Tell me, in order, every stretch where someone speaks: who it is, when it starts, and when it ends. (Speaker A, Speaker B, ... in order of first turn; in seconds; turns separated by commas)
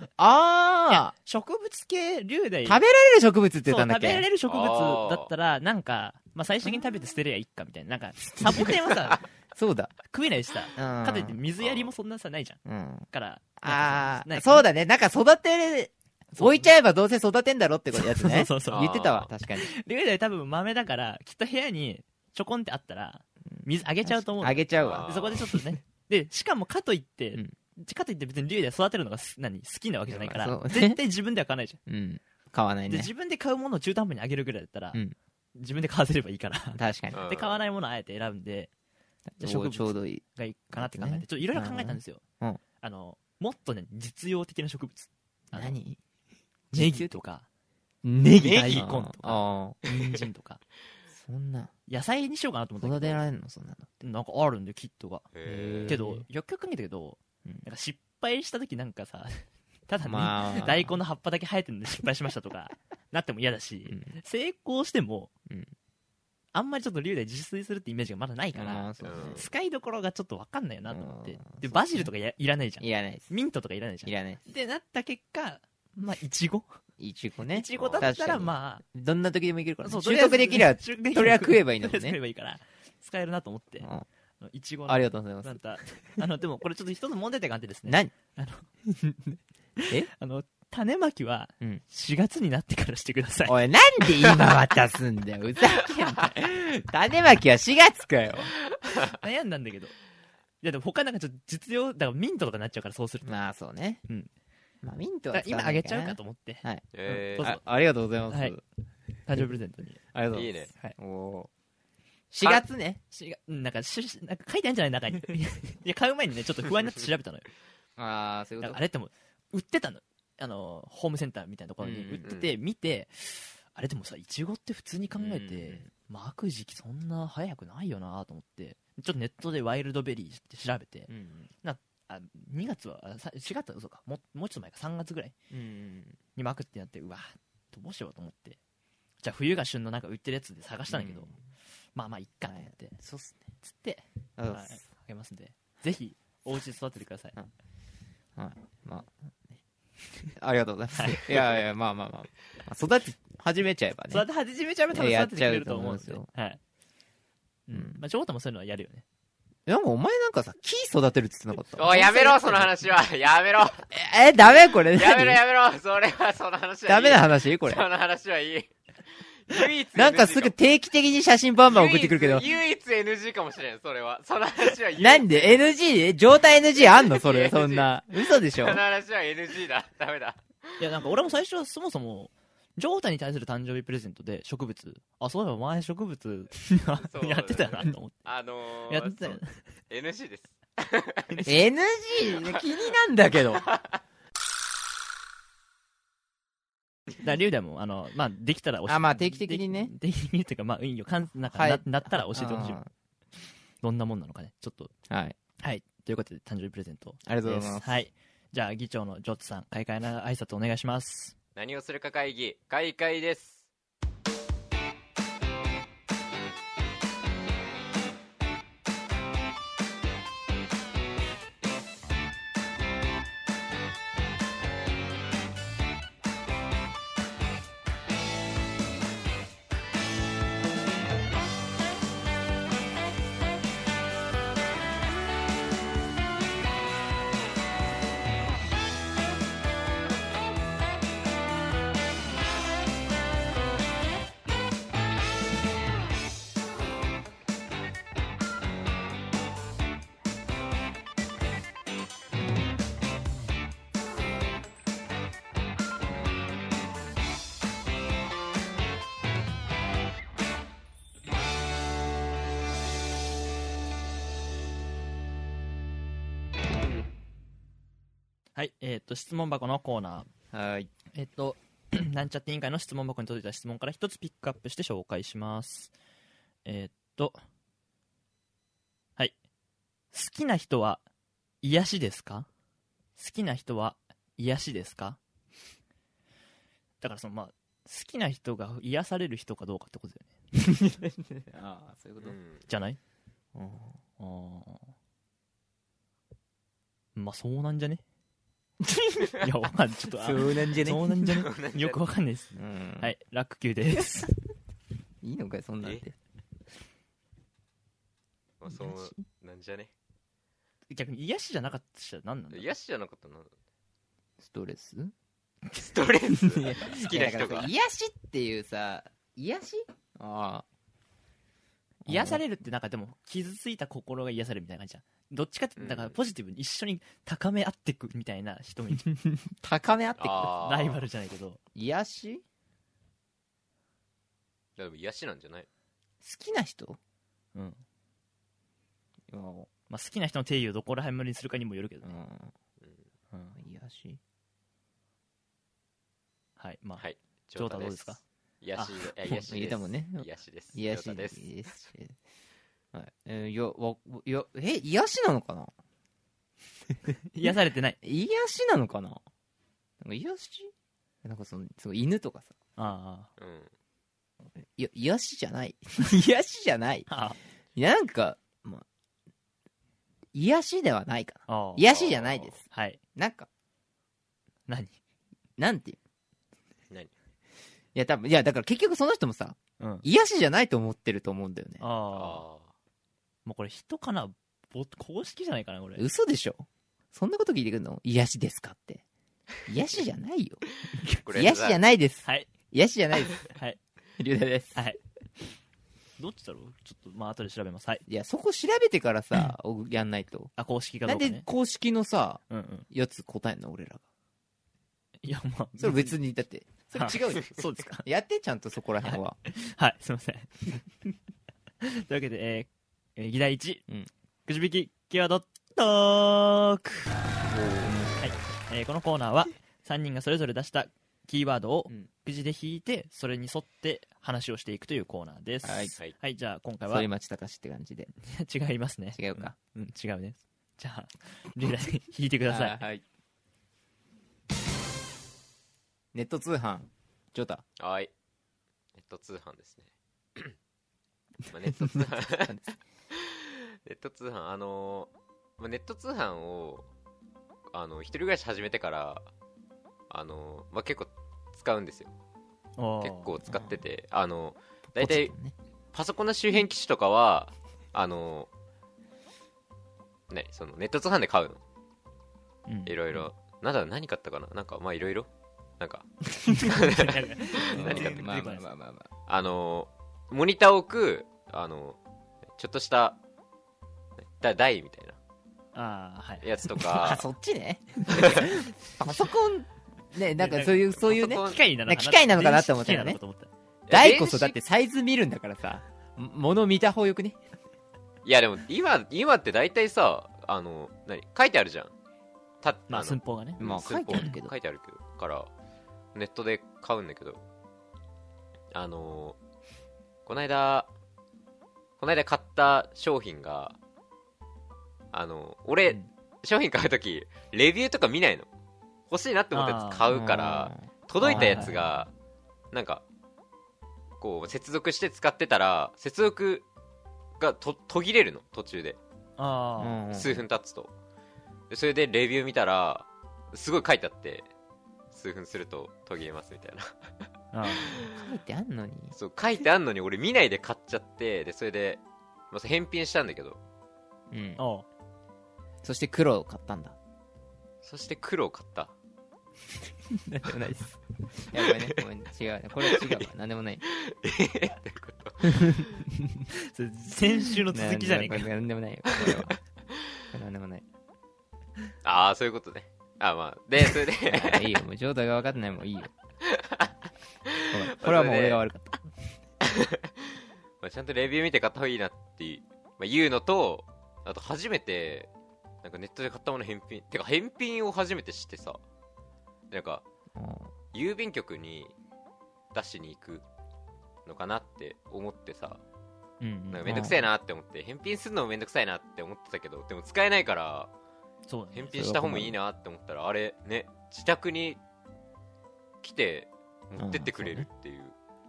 Speaker A: 0.2-1.1, Speaker B: 0.9-2.8, Speaker A: 2.6-4.3, Speaker B: 3.6-9.2, Speaker C: 4.5-5.3, Speaker A: 9.5-9.9, Speaker B: 10.0-12.6, Speaker A: 10.8-11.4, Speaker C: 11.6-11.9, Speaker A: 12.7-13.1, Speaker B: 13.1-14.6, Speaker A: 13.6-19.7, Speaker B: 16.3-16.7, Speaker B: 18.0-18.9, Speaker C: 18.7-19.3, Speaker B: 19.6-31.8, Speaker A: 23.5-25.6, Speaker C: 24.7-25.5, Speaker A: 30.1-31.0, Speaker A: 31.9-33.1, Speaker B: 32.9-35.0, Speaker B: 35.5-38.7, Speaker A: 36.7-37.2, Speaker C: 37.1-37.6, Speaker A: 39.4-42.6, Speaker B: 39.4-42.2, Speaker B: 42.8-45.8, Speaker A: 45.5-46.0, Speaker A: 46.7-47.1, Speaker B: 46.7-47.5, Speaker A: 48.0-49.8, Speaker C: 48.4-48.9, Speaker B: 48.5-50.6, Speaker A: 51.1-51.7, Speaker B: 51.9-53.2, Speaker A: 52.8-53.9, Speaker B: 54.0-55.2, Speaker C: 55.3-56.0, Speaker A: 55.4-56.2, Speaker B: 55.9-65.3, Speaker A: 60.0-61.0, Speaker B: 66.5-76.7, Speaker A: 68.5-69.4, Speaker C: 69.0-69.5, Speaker A: 70.9-72.1, Speaker A: 72.8-73.3, Speaker A: 74.0-74.4, Speaker A: 77.0-82.2, Speaker B: 77.5-78.8, Speaker C: 77.8-78.1, Speaker B: 79.8-83.9, Speaker B: 84.4-88.7, Speaker A: 84.9-85.6, Speaker A: 87.9-88.1, Speaker A: 89.0-89.4, Speaker B: 89.8-93.5, Speaker A: 93.5-98.5, Speaker B: 99.1-99.9, Speaker B: 100.6-103.4, Speaker A: 103.2-104.0, Speaker A: 104.8-108.6, Speaker B: 105.3-107.6, Speaker C: 106.9-107.5, Speaker B: 108.3-108.6, Speaker B: 109.2-110.0, Speaker A: 110.1-111.5, Speaker C: 110.3-110.7, Speaker B: 112.3-117.5, Speaker A: 112.4-113.0, Speaker A: 118.0-118.8, Speaker B: 118.6-131.1, Speaker A: 121.8-122.2, Speaker C: 122.2-122.5, Speaker A: 125.1-125.9, Speaker A: 131.1-131.5, Speaker B: 131.6-135.3, Speaker A: 135.5-136.2, Speaker B: 136.3-138.6, Speaker B: 139.2-141.3, Speaker A: 140.9-141.4, Speaker B: 141.9-143.0, Speaker A: 142.5-143.5, Speaker B: 143.6-147.3, Speaker A: 144.4-144.8, Speaker A: 148.3-149.6, Speaker A: 150.3-154.2, Speaker B: 150.9-151.6, Speaker B: 154.1-156.6, Speaker A: 154.9-156.3, Speaker B: 157.7-159.0, Speaker A: 157.7-158.0, Speaker A: 159.7-162.7, Speaker C: 161.7-163.9, Speaker A: 163.9-165.4, Speaker C: 164.8-170.5, Speaker A: 166.8-167.8, Speaker A: 169.9-172.4, Speaker C: 171.7-175.7, Speaker A: 175.0-178.8, Speaker C: 176.8-180.8, Speaker B: 180.8-188.2, Speaker C: 187.0-191.4, Speaker B: 188.9-189.6, Speaker A: 191.4-193.7, Speaker C: 192.2-192.6, Speaker C: 193.6-194.0, Speaker B: 197.2-202.8, Speaker A: 198.9-199.9, Speaker A: 201.5-202.9, Speaker B: 203.8-204.9, Speaker A: 205.1-205.3, Speaker B: 205.6-211.3, Speaker A: 207.2-208.0, Speaker C: 211.5-213.7, Speaker B: 268.5-270.3, Speaker A: 270.5-270.9, Speaker B: 271.1-275.9, Speaker B: 276.6-277.4, Speaker B: 280.1-281.0, Speaker B: 281.6-282.5, Speaker B: 283.2-285.2, Speaker B: 287.0-290.8, Speaker A: 290.9-292.4, Speaker C: 292.2-292.6, Speaker B: 292.7-293.0, Speaker A: 293.5-294.0, Speaker B: 294.2-294.9, Speaker B: 297.1-298.0, Speaker B: 299.4-304.3, Speaker A: 300.2-301.1, Speaker C: 301.4-302.0, Speaker A: 302.6-303.1, Speaker A: 305.2-306.1, Speaker C: 308.6-309.9, Speaker A: 308.7-309.2, Speaker B: 310.9-312.7, Speaker C: 312.5-313.5, Speaker A: 314.4-315.1, Speaker C: 315.7-317.7, Speaker A: 316.4-320.6, Speaker A: 322.1-322.4, Speaker B: 322.1-329.1, Speaker C: 325.8-326.2, Speaker A: 329.0-330.6, Speaker C: 330.2-331.0, Speaker B: 330.6-331.6, Speaker A: 331.7-332.4, Speaker C: 334.8-335.7, Speaker A: 336.2-337.0, Speaker B: 337.5-337.8, Speaker A: 339.3-339.7, Speaker B: 339.9-342.1, Speaker A: 342.0-342.5, Speaker C: 342.8-343.1, Speaker B: 343.3-343.6, Speaker A: 343.6-344.2, Speaker B: 346.6-347.0, Speaker C: 347.0-351.5, Speaker B: 347.6-348.2, Speaker B: 348.8-349.5, Speaker A: 349.5-352.2, Speaker A: 352.9-355.7, Speaker B: 357.3-358.0, Speaker A: 358.0-359.2, Speaker A: 360.0-360.7, Speaker A: 361.2-362.5, Speaker B: 362.8-363.3, Speaker C: 363.4-363.7, Speaker A: 364.6-367.1, Speaker B: 367.1-367.4, Speaker A: 367.7-368.9, Speaker A: 370.3-372.6, Speaker B: 371.5-371.9, Speaker C: 371.8-372.6, Speaker B: 372.7-373.0, Speaker A: 373.1-373.5, Speaker B: 374.7-375.0, Speaker A: 375.6-376.0, Speaker A: 377.9-381.8, Speaker B: 379.8-380.0, Speaker B: 381.8-382.4, Speaker C: 382.1-382.7, Speaker B: 383.4-386.0, Speaker A: 386.0-389.0, Speaker A: 389.7-390.6, Speaker C: 391.2-391.8, Speaker A: 391.3-393.4, Speaker B: 393.5-393.8, Speaker A: 394.2-394.8, Speaker B: 394.7-395.0, Speaker B: 396.2-398.0, Speaker A: 398.1-400.5, Speaker B: 400.6-401.4, Speaker A: 401.1-404.0, Speaker B: 402.5-402.9, Speaker B: 405.2-406.1, Speaker A: 405.8-409.4, Speaker B: 406.9-408.0, Speaker B: 409.0-410.8, Speaker B: 411.8-413.8, Speaker B: 414.4-417.1, Speaker C: 417.5-418.2, Speaker A: 417.8-418.2, Speaker B: 418.2-427.1, Speaker A: 425.6-425.9, Speaker A: 426.9-428.1, Speaker B: 428.2-432.8, Speaker A: 429.1-429.5, Speaker A: 432.5-433.0, Speaker A: 436.1-437.6, Speaker C: 437.8-438.1, Speaker C: 438.9-440.6, Speaker C: 441.5-442.6, Speaker A: 441.9-442.7, Speaker C: 443.1-446.9, Speaker C: 447.7-449.2, Speaker C: 450.1-452.1, Speaker B: 452.8-453.3, Speaker C: 453.0-455.3, Speaker A: 453.5-453.8, Speaker A: 454.9-455.5, Speaker C: 455.9-458.5, Speaker C: 460.3-461.6, Speaker B: 462.7-462.9, Speaker C: 462.9-465.3, Speaker C: 465.8-468.4, Speaker B: 466.7-468.7, Speaker A: 467.6-469.1, Speaker C: 469.3-472.0, Speaker C: 472.6-473.2, Speaker C: 474.2-475.2, Speaker B: 475.7-476.9, Speaker C: 476.4-477.2, Speaker A: 477.0-483.2, Speaker B: 480.4-483.5, Speaker C: 481.0-481.6, Speaker C: 483.9-484.6, Speaker A: 483.9-487.4, Speaker C: 488.2-491.9, Speaker C: 492.6-495.5, Speaker B: 492.9-494.3, Speaker A: 493.6-494.5, Speaker C: 496.1-497.4, Speaker C: 498.7-499.4, Speaker C: 500.2-500.9, Speaker C: 502.0-503.8, Speaker C: 505.1-508.5, Speaker C: 509.1-512.1, Speaker B: 509.5-510.1, Speaker A: 510.1-511.8, Speaker B: 511.2-511.8, Speaker C: 512.7-513.0, Speaker C: 514.2-516.6, Speaker C: 517.4-519.0, Speaker B: 519.4-520.0, Speaker A: 519.8-520.4, Speaker C: 520.1-520.9, Speaker C: 521.7-524.5, Speaker C: 525.1-527.2, Speaker B: 527.5-528.0, Speaker A: 528.1-529.1, Speaker C: 529.1-533.6, Speaker A: 534.3-534.6, Speaker B: 534.6-534.9, Speaker A: 535.8-537.0, Speaker C: 537.8-538.9, Speaker A: 540.2-543.8, Speaker C: 541.6-542.0, Speaker C: 542.8-543.2, Speaker C: 543.9-546.0, Speaker B: 546.6-548.5, Speaker A: 547.7-549.5, Speaker C: 549.1-549.5, Speaker A: 550.3-550.8, Speaker C: 552.0-554.8, Speaker A: 554.2-556.1, Speaker C: 556.4-556.9, Speaker C: 557.5-558.6, Speaker A: 557.7-559.0, Speaker C: 559.6-560.1, Speaker C: 560.8-565.3, Speaker C: 565.8-568.8, Speaker C: 569.7-570.0, Speaker A: 570.3-570.7, Speaker C: 570.9-571.9, Speaker C: 572.7-573.4, Speaker C: 574.2-575.8, Speaker B: 576.4-577.1, Speaker C: 576.7-580.9, Speaker A: 576.9-577.3, Speaker B: 581.5-582.0, Speaker C: 581.7-584.8, Speaker A: 581.9-582.6, Speaker C: 586.0-588.1, Speaker A: 587.0-587.7